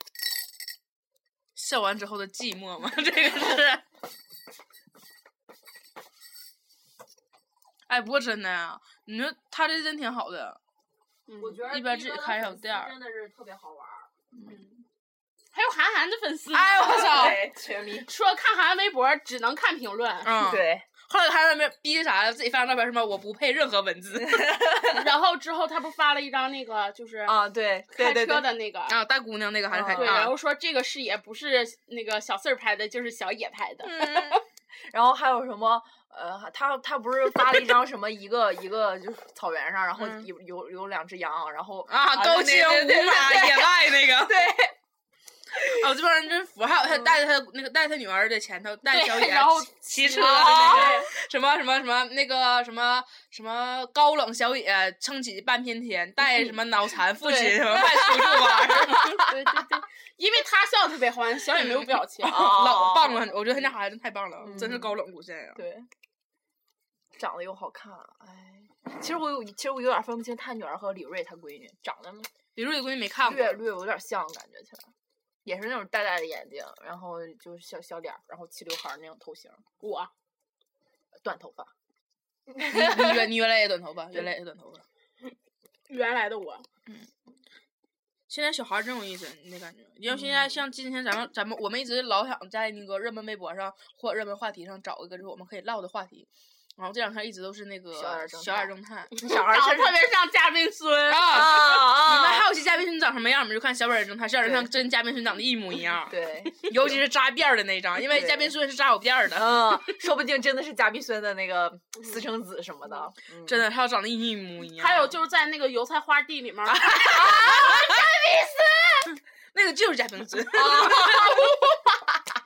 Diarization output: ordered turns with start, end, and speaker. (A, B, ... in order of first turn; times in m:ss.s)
0:01.6-0:03.8 A
0:07.9-0:10.6 A
0:11.3-0:11.6 B
0:11.4-0:14.1 C
0:11.6-0:13.0 A
0:15.5-0:17.4 B
0:16.5-0:17.4 A
0:16.7-0:18.1 C
0:18.0-0:20.4 B
0:20.2-0:24.6 A
0:20.4-0:20.8 C
0:24.2-0:25.1 C
0:24.9-0:27.4 B
0:27.3-0:28.5 C
0:27.9-0:29.0 B
0:28.9-0:30.4 A
0:29.7-0:30.3 C
0:29.9-0:34.4 B
0:33.8-0:34.4 A
0:34.9-0:44.7 C
0:40.0-0:40.3 A
0:41.9-0:44.5 A
0:45.6-0:59.3 A
0:48.9-0:51.1 B
0:50.4-0:51.1 C
0:56.3-0:56.6 C
0:57.2-0:59.2 C
0:58.7-1:02.5 B
1:01.6-1:05.6 A
1:02.3-1:03.3 C
1:04.4-1:05.0 C
1:05.6-1:05.9 C
1:07.2-1:12.3 C
1:12.6-1:13.6 A
1:13.2-1:14.9 C
1:15.4-1:19.6 C
1:19.8-1:20.1 B
1:21.2-1:21.7 C
1:22.6-1:24.8 A
1:22.8-1:23.1 C
1:25.9-1:26.7 B
1:28.3-1:39.9 A
1:30.1-1:30.4 C
1:38.0-1:38.7 C
1:39.2-1:41.5 B
1:39.2-1:39.6 C
1:41.1-1:50.0 A
1:41.3-1:42.5 C
1:44.4-1:44.7 C
1:46.1-1:46.8 C
1:48.1-1:48.6 C
1:49.3-1:53.6 C
1:53.5-1:55.1 A
1:54.7-1:59.2 B
1:56.7-1:58.1 A
1:57.5-1:57.8 C
1:59.5-2:01.5 A
2:00.5-2:02.0 C